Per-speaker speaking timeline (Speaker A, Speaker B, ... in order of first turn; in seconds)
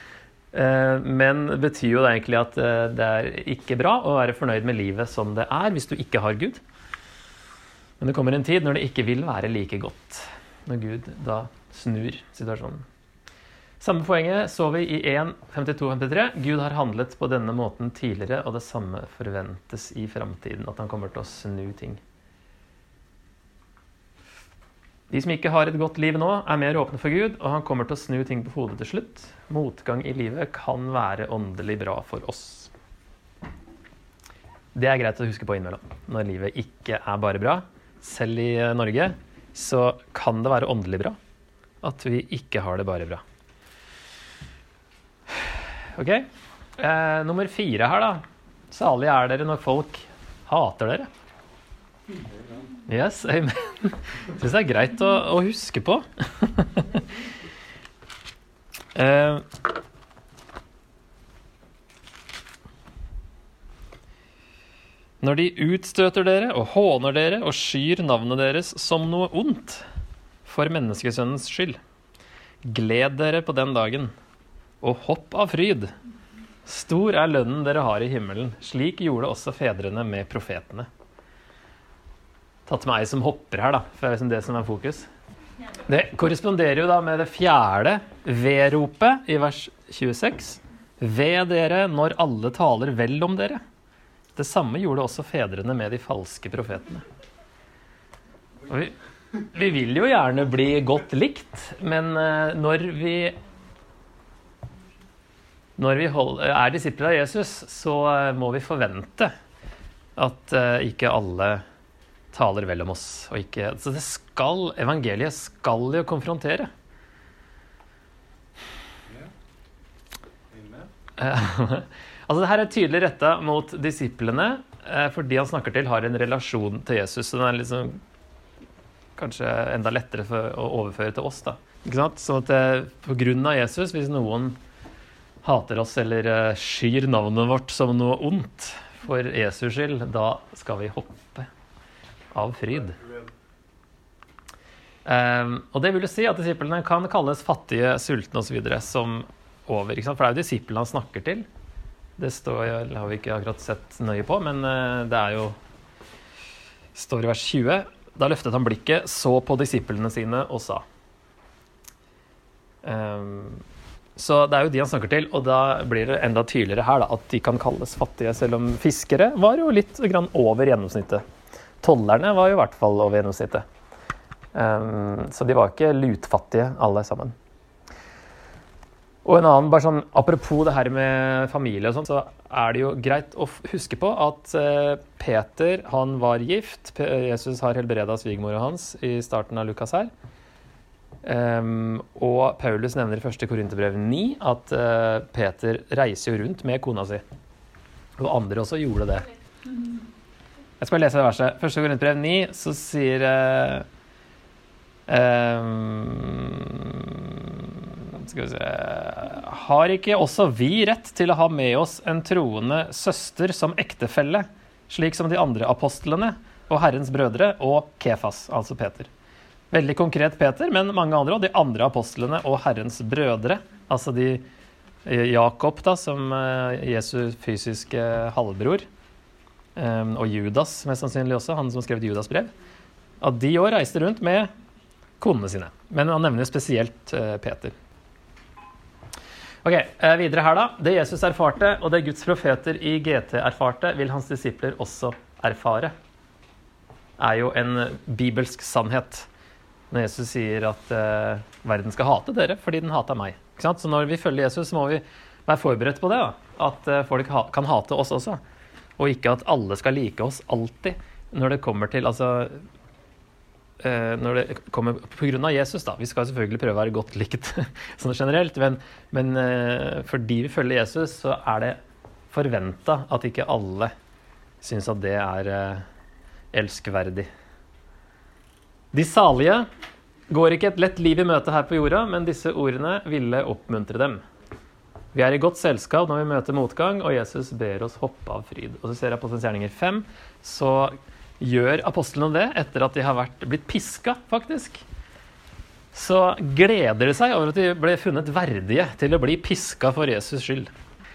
Speaker A: 0.5-6.6, 8.0-12.9, 13.8-22.0, 25.1-32.7, 34.8-41.2, 41.8-43.2, 45.5-51.1, 52.9-57.1, 59.0-59.5, 65.2-69.8, 70.5-71.8, 72.6-74.1, 74.8-75.9, 76.7-80.9, 82.7-85.1, 85.9-93.6, 94.4-97.0, 98.7-103.4, 105.8-109.3, 110.2-111.6, 112.3-116.7, 121.2-128.0, 129.2-134.6, 135.4-141.5, 142.3-143.1, 145.1-151.5, 152.2-155.6, 156.9-160.8, 162.8-163.6, 164.2-171.2, 171.8-173.7, 174.5-177.3, 179.2-190.1, 191.2-197.2, 198.2-199.3, 200.8-203.9, 205.1-219.1, 219.7-224.5, 225.1-228.9, 229.8-232.5, 233.2-234.5, 235.2-237.8, 239.6-245.9, 247.2-249.3, 249.9-258.4, 259.0-262.6, 263.8-271.8, 272.3-273.9, 274.6-275.9, 276.5-277.3, 278.9-279.7, 280.3-284.2, 285.1-294.8, 295.9-300.7